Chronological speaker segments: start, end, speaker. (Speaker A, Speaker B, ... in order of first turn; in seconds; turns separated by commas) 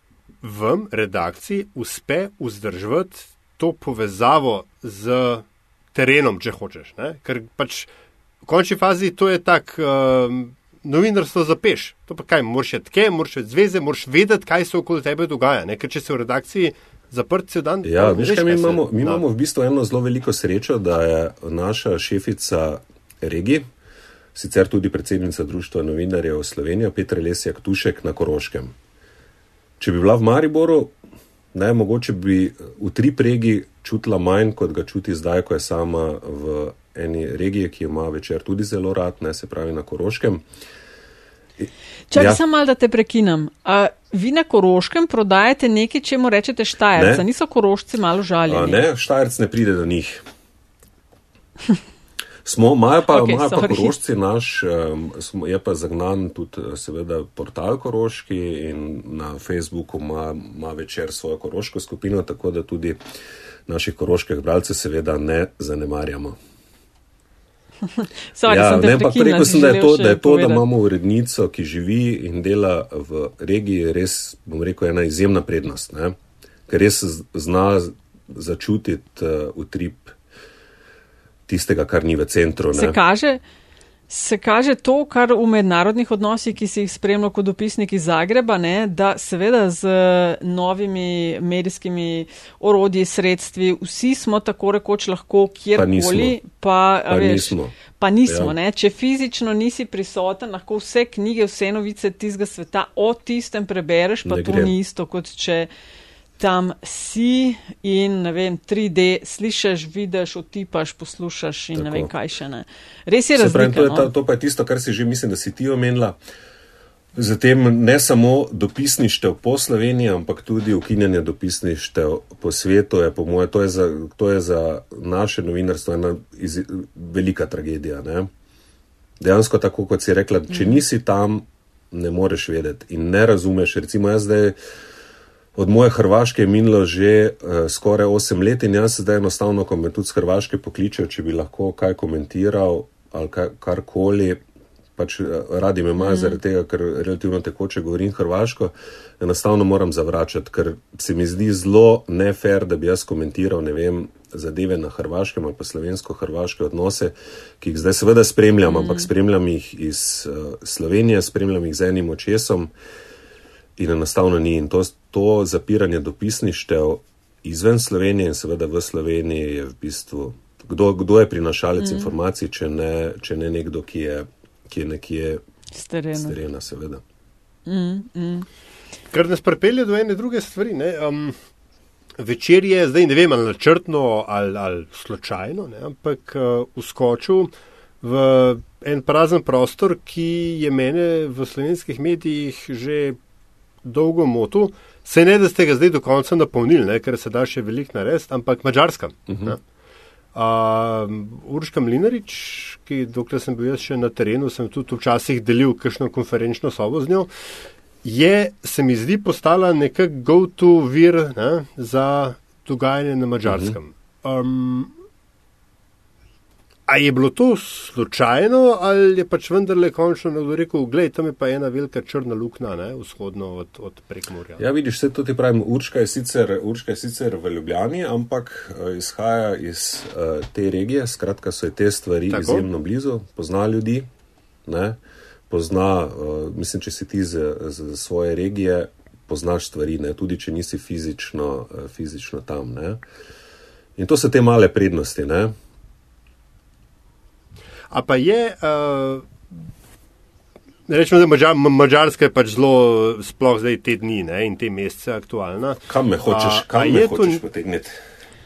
Speaker A: 0.4-7.9, Speaker A: 8.4-19.2, Speaker B: 17.8-23.6, Speaker B: 24.3-28.7, Speaker B: 29.8-30.9, Speaker B: 31.5-40.4, Speaker B: 41.6-42.4, Speaker C: 42.1-48.8, Speaker B: 47.0-47.2, Speaker B: 48.5-50.2, Speaker B: 52.4-63.0, Speaker C: 53.1-53.9, Speaker B: 63.7-66.4, Speaker C: 68.0-70.7, Speaker B: 68.4-76.2, Speaker B: 76.7-80.1, Speaker B: 81.5-83.0, Speaker C: 82.7-83.4, Speaker C: 84.1-105.7, Speaker B: 95.7-96.4, Speaker B: 97.1-97.7, Speaker B: 98.2-98.5, Speaker B: 104.2-104.7, Speaker C: 106.4-114.1, Speaker B: 111.7-112.1, Speaker B: 113.4-116.2, Speaker B: 117.1-128.3, Speaker B: 129.2-134.6, Speaker B: 135.6-144.4, Speaker B: 145.0-162.7, Speaker C: 146.0-146.4, Speaker C: 158.7-159.1, Speaker B: 163.8-175.4, Speaker C: 171.8-172.1, Speaker C: 175.8-176.3, Speaker B: 176.1-177.0, Speaker C: 177.7-178.5, Speaker A: 179.1-181.4, Speaker A: 182.2-193.2, Speaker A: 193.8-199.6, Speaker A: 200.3-207.3, Speaker A: 208.0-214.9, Speaker B: 213.5-213.8, Speaker A: 216.9-224.6, Speaker B: 224.6-234.1, Speaker A: 232.3-232.7, Speaker B: 234.7-243.0, Speaker B: 244.0-245.5, Speaker A: 247.9-249.3, Speaker A: 250.9-257.4, Speaker B: 255.9-258.0